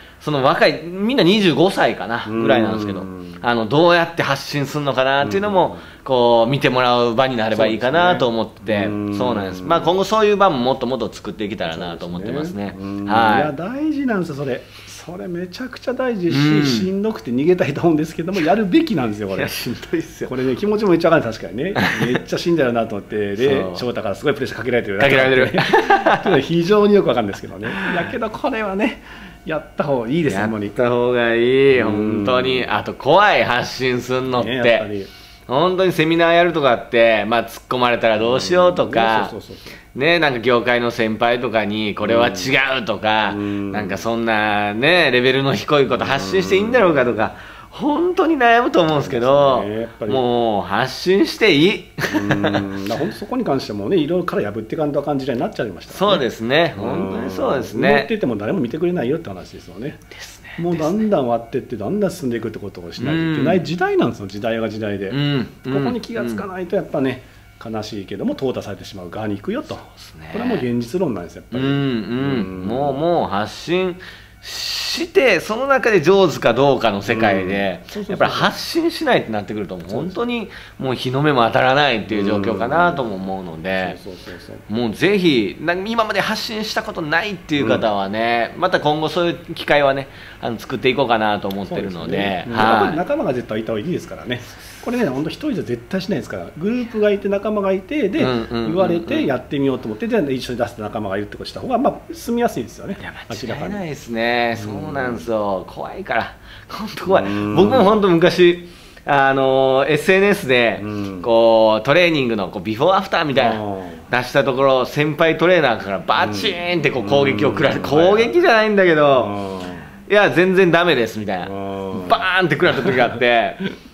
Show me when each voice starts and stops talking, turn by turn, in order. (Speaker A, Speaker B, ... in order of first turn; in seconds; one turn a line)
Speaker A: 0.2-13.5
Speaker B: 2.3-3.4
Speaker B: 5.2-5.8
Speaker B: 7.5-10.0
Speaker B: 11.7-19.5
Speaker A: 16.3-16.9
Speaker A: 19.3-20.3
Speaker B: 20.2-30.7
Speaker A: 23.4-23.8
Speaker A: 25.0-26.4
Speaker A: 27.7-28.1
Speaker A: 30.3-34.9
Speaker B: 31.7-32.8
Speaker B: 34.3-35.1
Speaker A: 35.5-39.3
Speaker B: 38.2-39.8
Speaker A: 39.9-52.9
Speaker B: 42.0-42.5
Speaker B: 43.3-44.0
Speaker B: 45.9-47.2
Speaker B: 48.9-50.2
Speaker B: 52.1-56.2
Speaker A: 55.9-58.1
Speaker B: 56.8-60.0
Speaker A: 60.1-61.1
Speaker B: 60.6-73.0
Speaker A: 63.0-63.7
Speaker A: 65.1-66.5
Speaker A: 70.0-70.7
Speaker A: 71.5-84.0
Speaker B: 77.1-78.5
Speaker B: 79.9-80.2
Speaker B: 82.1-83.2
Speaker B: 83.8-84.6
Speaker A: 84.7-93.0
Speaker B: 87.6-87.9
Speaker B: 91.7-103.8
Speaker A: 98.2-99.3
Speaker A: 103.0-119.4
Speaker B: 104.6-105.3
Speaker B: 107.1-107.9
Speaker B: 110.8-111.3
Speaker B: 113.3-114.1
Speaker B: 116.2-118.3
Speaker B: 119.1-119.9
Speaker A: 120.1-123.6
Speaker B: 121.4-123.0